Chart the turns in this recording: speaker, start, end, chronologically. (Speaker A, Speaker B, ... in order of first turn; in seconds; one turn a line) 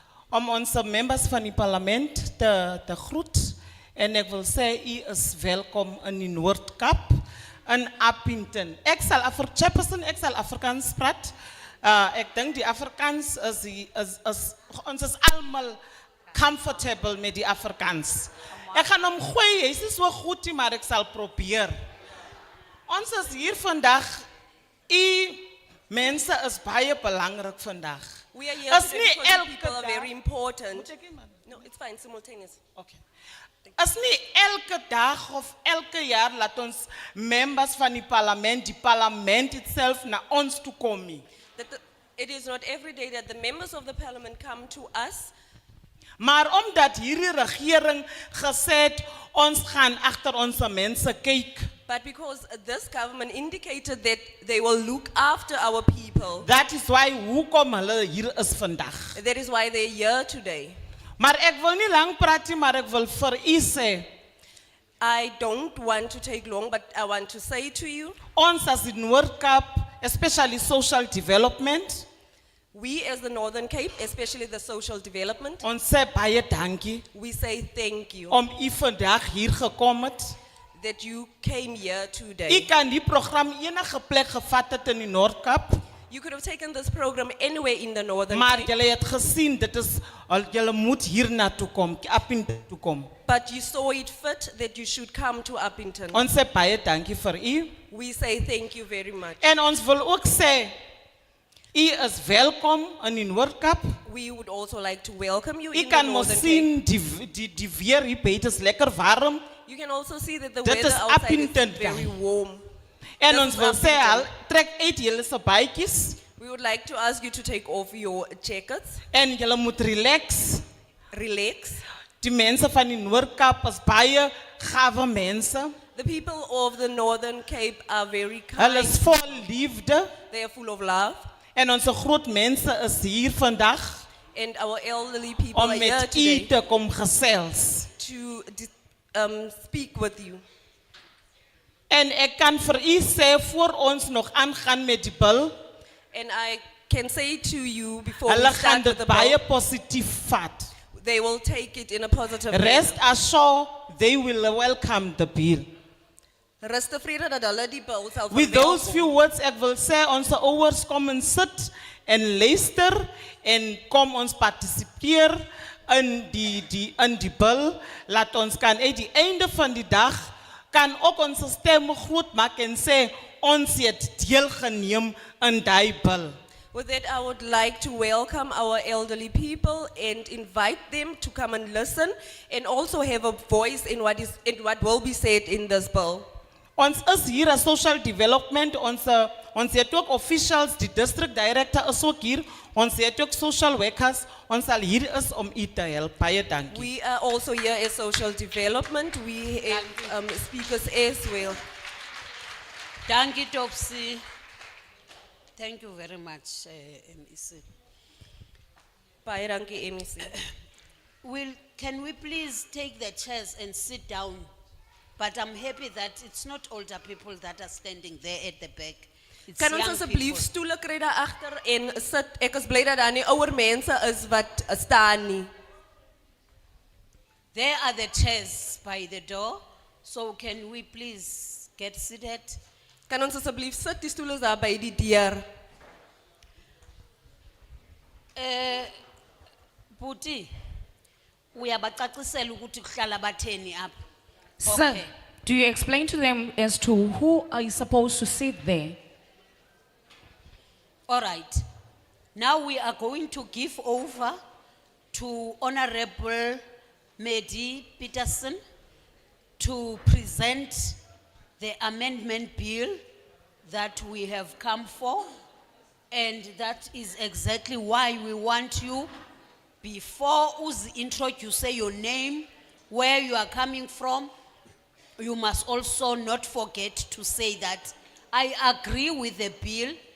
Speaker A: 0.3-15.8
Speaker A: 16.3-21.7
Speaker A: 22.9-24.2
Speaker A: 24.9-28.1
Speaker B: 28.3-30.9
Speaker A: 28.7-30.1
Speaker A: 30.7-31.5
Speaker B: 31.5-32.6
Speaker A: 33.8-41.2
Speaker B: 41.6-45.3
Speaker A: 46.2-51.7
Speaker B: 51.9-56.5
Speaker A: 56.4-59.1
Speaker B: 59.1-60.8
Speaker A: 61.2-64.1
Speaker B: 65.0-68.2
Speaker A: 68.3-72.1
Speaker B: 72.7-75.6
Speaker A: 75.6-77.0
Speaker B: 77.1-78.4
Speaker A: 78.3-80.3
Speaker B: 80.8-82.7
Speaker A: 82.5-85.8
Speaker B: 86.1-88.7
Speaker A: 88.3-93.1
Speaker B: 93.2-96.2
Speaker A: 96.1-97.8
Speaker B: 97.9-99.4
Speaker A: 99.4-100.8
Speaker A: 101.7-104.0
Speaker B: 104.0-106.7
Speaker A: 105.7-109.5
Speaker B: 109.6-112.7
Speaker A: 110.7-112.1
Speaker A: 113.2-116.2
Speaker B: 113.3-114.3
Speaker B: 116.4-119.0
Speaker A: 119.1-120.6
Speaker B: 121.1-121.8
Speaker A: 122.2-125.8
Speaker B: 126.0-129.4
Speaker A: 128.6-130.1
Speaker B: 130.3-131.2
Speaker A: 131.6-134.0
Speaker B: 134.3-136.5
Speaker A: 135.5-137.9
Speaker B: 138.0-140.4
Speaker A: 141.9-145.6
Speaker B: 146.1-149.4
Speaker A: 148.2-150.7
Speaker B: 150.9-153.0
Speaker A: 152.5-155.7
Speaker B: 156.6-159.2
Speaker A: 158.3-176.4
Speaker B: 176.7-186.3
Speaker A: 186.8-196.9
Speaker B: 196.7-201.6
Speaker C: 199.7-200.1
Speaker C: 203.1-204.2
Speaker C: 205.6-207.6
Speaker B: 209.2-210.4
Speaker C: 211.2-214.5
Speaker C: 215.2-220.5
Speaker B: 219.6-225.5
Speaker C: 227.5-232.6
Speaker B: 233.1-235.5
Speaker C: 238.3-238.9
Speaker C: 239.9-240.5
Speaker C: 241.5-243.9
Speaker D: 244.6-249.0
Speaker C: 244.6-245.1
Speaker C: 251.1-251.6
Speaker C: 252.3-254.4
Speaker C: 255.1-256.6
Speaker C: 257.2-258.6
Speaker C: 259.6-261.0
Speaker C: 261.6-263.0
Speaker C: 263.6-265.3
Speaker C: 266.1-269.1
Speaker C: 269.8-274.3
Speaker C: 275.2-280.0